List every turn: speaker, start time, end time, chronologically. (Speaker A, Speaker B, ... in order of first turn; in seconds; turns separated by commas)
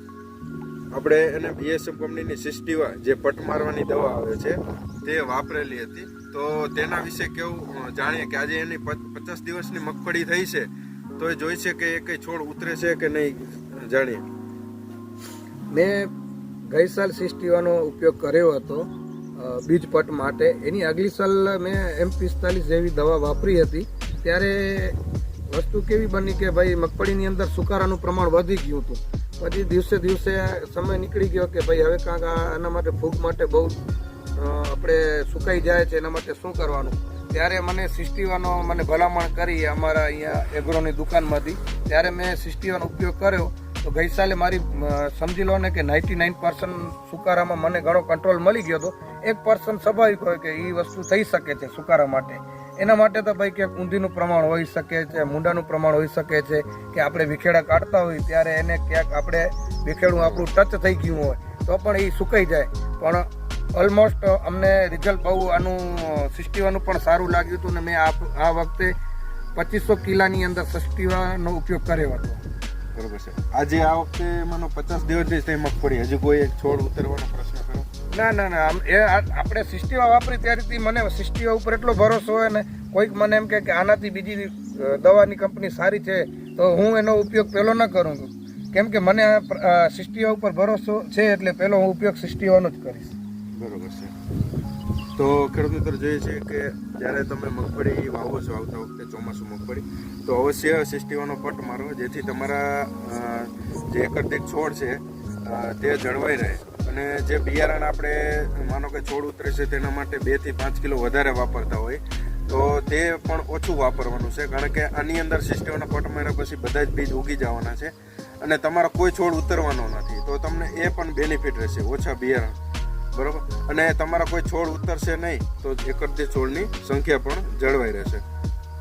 Speaker A: 0.9-14.2, Speaker B: 15.7-16.1, Speaker B: 16.7-25.0, Speaker B: 25.5-33.8, Speaker B: 34.4-68.9, Speaker A: 60.2-60.5, Speaker B: 69.5-72.4, Speaker A: 73.0-77.9, Speaker B: 78.1-93.2, Speaker A: 93.6-94.1, Speaker A: 95.2-122.6, Speaker A: 123.1-128.2